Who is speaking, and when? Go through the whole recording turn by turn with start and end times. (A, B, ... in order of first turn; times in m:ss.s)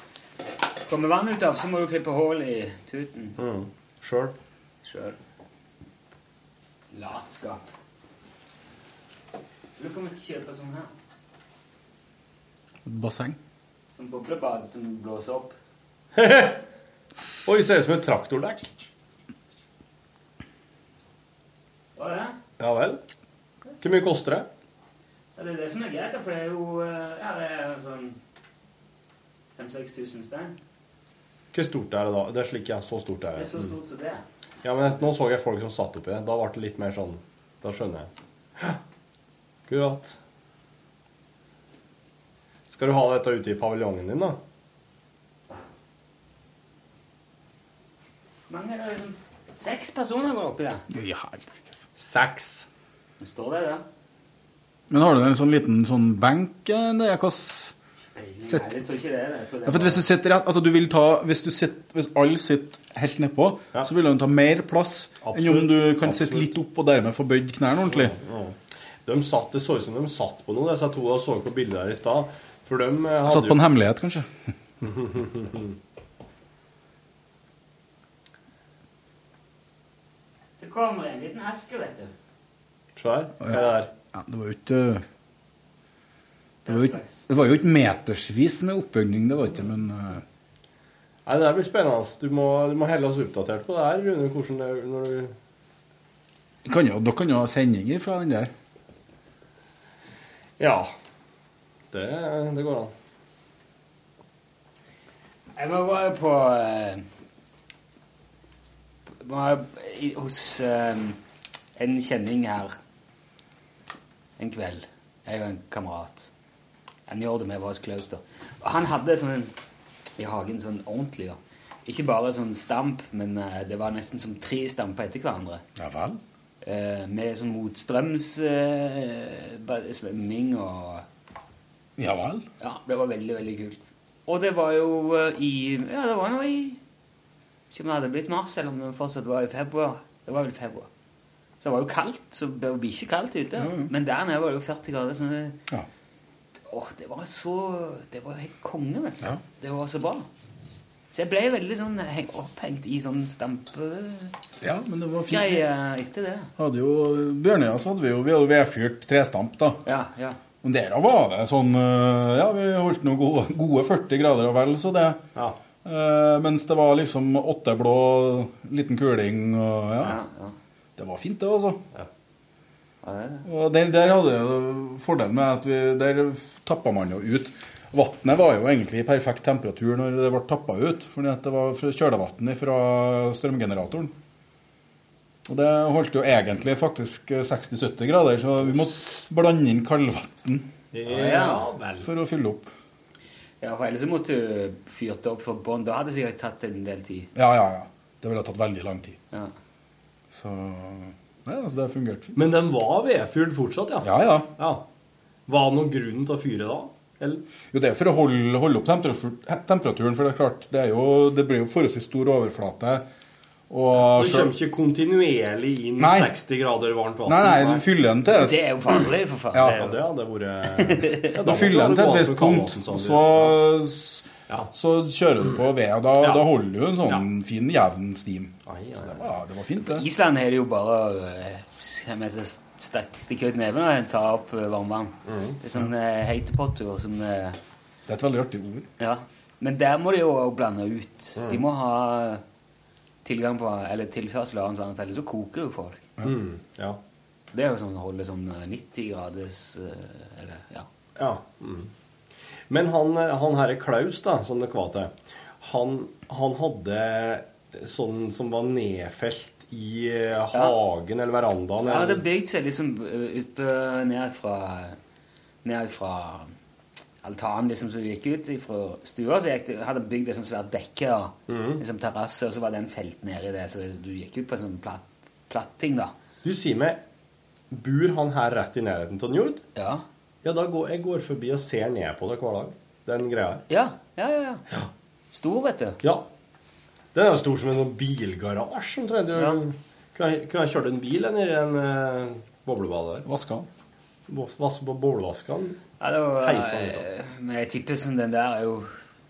0:00.8-0:03.4 A
0:03.4-0:04.3 B
0:04.8-0:05.2 A
0:06.9-0:07.7 A
0:09.8-0:10.9 A
0:12.8-0:13.4 C
0:13.9-0:15.5 A
0:16.1-0:16.6 B
0:17.4-0:18.7 B
0:22.0-0:22.4 A
0:22.6-0:23.0 B
0:23.8-0:24.5 B
0:25.4-0:28.2 A
0:29.6-0:30.6 A
0:31.5-0:33.7 B
0:33.3-0:34.2 A
0:34.6-0:38.8 B
0:39.7-0:40.2 B
0:42.7-0:44.4 B
0:48.5-0:50.8 A
0:50.9-0:51.8 C
0:52.0-0:52.7 B
0:53.2-0:53.8 A
0:54.9-0:57.7 C
0:58.1-1:00.0 A
0:58.4-0:58.8 C
0:59.6-1:08.1 C
1:05.2-1:06.5 B
1:07.9-1:13.6 B
1:13.2-1:14.3 C
1:14.8-1:15.7 B
1:20.6-1:22.1 A
1:23.0-1:23.9 B
1:24.1-1:25.0 C
1:26.6-1:27.2 A
1:26.6-1:30.2 C
1:31.2-1:35.3 B
1:36.6-1:38.5 C
1:40.6-1:40.9 B
1:41.9-1:42.9 B
1:45.6-1:47.0 A
1:49.2-1:51.2 A
1:51.8-1:52.8 A
1:54.4-1:56.3 A
1:57.1-1:59.5 A
2:00.2-2:05.6 A
2:05.8-2:06.2 C
2:06.6-2:11.0 A
2:12.0-2:12.4 C
2:12.6-2:16.8 A
2:17.7-2:20.9 A
2:21.6-2:25.6 A
2:23.6-2:23.9 C
2:26.7-2:30.3 A
2:31.1-2:34.3 A
2:34.6-2:35.6 C
2:35.3-2:36.5 A
2:36.6-2:39.8 C
2:39.8-2:40.4 A
2:40.6-2:45.2 C
2:45.8-2:50.2 C
2:50.0-2:50.5 A
2:51.0-2:51.8 C
2:53.0-2:53.4 A
2:53.4-3:04.1 C
3:05.4-3:10.7 C
3:10.9-3:12.1 B
3:11.1-3:11.6 A
3:12.0-3:12.7 C
3:13.6-3:17.3 A
3:17.3-3:19.2 C
3:20.3-3:22.4 C
3:22.4-3:24.8 B
3:24.0-3:24.5 C
3:25.5-3:27.4 B
3:27.7-3:33.0 C
3:33.7-3:34.5 C
3:33.9-3:37.8 B
3:36.0-3:36.3 C
3:37.2-3:38.6 C
3:38.3-3:39.9 A
3:39.5-3:39.9 C
3:39.7-3:43.6 B
3:40.8-3:41.4 A
3:41.4-3:50.0 C
3:46.2-3:46.4 B
3:48.6-3:49.2 B
3:49.8-3:57.6 A
3:55.2-3:55.6 B
3:58.1-3:58.9 C
3:59.0-4:02.4 A
4:01.4-4:01.6 B
4:03.2-4:06.0 A
4:06.2-4:07.0 B
4:07.5-4:10.9 A
4:11.2-4:11.9 B
4:12.7-4:22.2 B
4:21.8-4:25.0 A
4:25.6-4:26.5 A
4:27.2-4:36.1 A
4:31.5-4:31.8 B
4:36.4-4:37.0 B
4:37.7-4:39.6 B
4:39.7-4:40.0 A
4:40.4-4:43.6 B
4:43.7-4:44.6 A
4:45.3-4:46.0 A
4:47.1-4:53.2 B
4:53.2-4:53.7 C
4:54.3-4:55.8 B
4:56.0-4:58.9 A
4:56.4-4:57.0 B